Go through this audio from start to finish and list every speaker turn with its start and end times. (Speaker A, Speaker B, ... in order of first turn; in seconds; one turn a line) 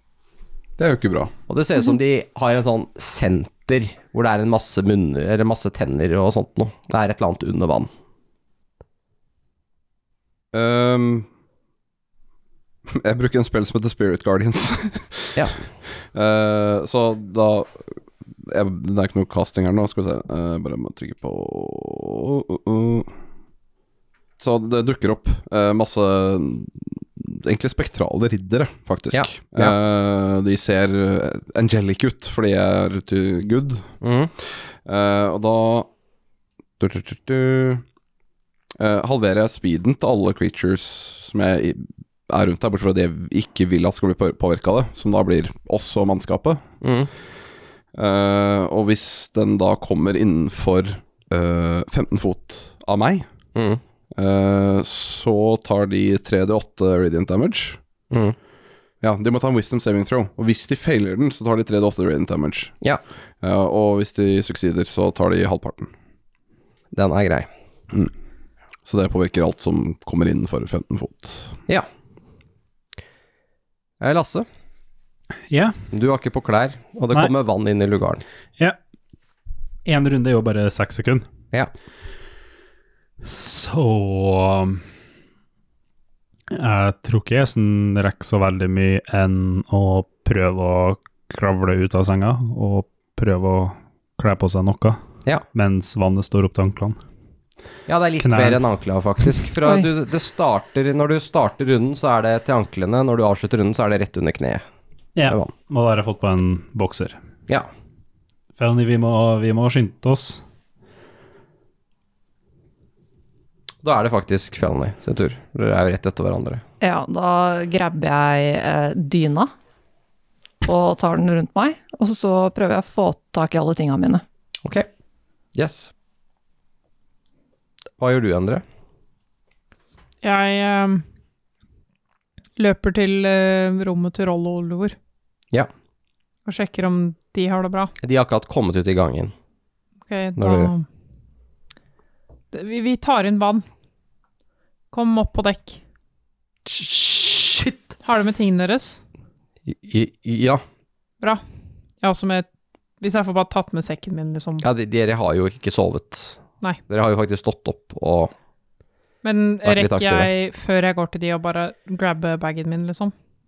Speaker A: 0.8-1.3
Speaker B: 1.5-7.9
Speaker A: 10.5-11.3
Speaker A: 12.9-15.4
Speaker B: 15.4-15.6
Speaker A: 16.0-17.9
Speaker A: 18.4-23.1
Speaker A: 24.4-33.9
Speaker B: 29.1-29.8
Speaker B: 34.0-34.3
Speaker A: 34.4-35.9
Speaker A: 36.8-37.8
Speaker A: 38.8-46.6
Speaker B: 46.8-47.1
Speaker A: 48.0-53.3
Speaker B: 53.5-53.8
Speaker A: 54.1-57.8
Speaker B: 58.1-58.4
Speaker A: 59.0-62.7
Speaker A: 63.4-65.9
Speaker B: 66.9-67.5
Speaker A: 68.9-71.6
Speaker B: 74.0-74.5
Speaker C: 75.5-75.8
Speaker B: 75.9-78.2
Speaker C: 79.8-81.3
Speaker C: 83.2-84.8
Speaker C: 86.5-95.0
Speaker C: 95.5-97.0
Speaker B: 97.9-104.6
Speaker C: 98.2-98.6
Speaker C: 105.2-107.2
Speaker B: 105.3-105.5
Speaker C: 108.6-110.4
Speaker B: 113.8-116.6
Speaker D: 116.8-119.5
Speaker D: 120.6-124.2
Speaker B: 125.5-125.9
Speaker B: 128.0-128.6
Speaker E: 130.2-131.0
Speaker E: 132.6-135.0
Speaker E: 136.5-137.9
Speaker B: 138.0-139.3
Speaker E: 140.1-140.9
Speaker B: 140.4-140.7
Speaker E: 142.5-143.7
Speaker E: 144.9-145.8
Speaker B: 146.7-147.9
Speaker E: 148.0-149.0
Speaker B: 149.7-150.6
Speaker E: 152.0-152.5
Speaker E: 153.0-154.7
Speaker B: 154.6-158.3
Speaker E: 159.2-163.1
Speaker B: 159.6-160.3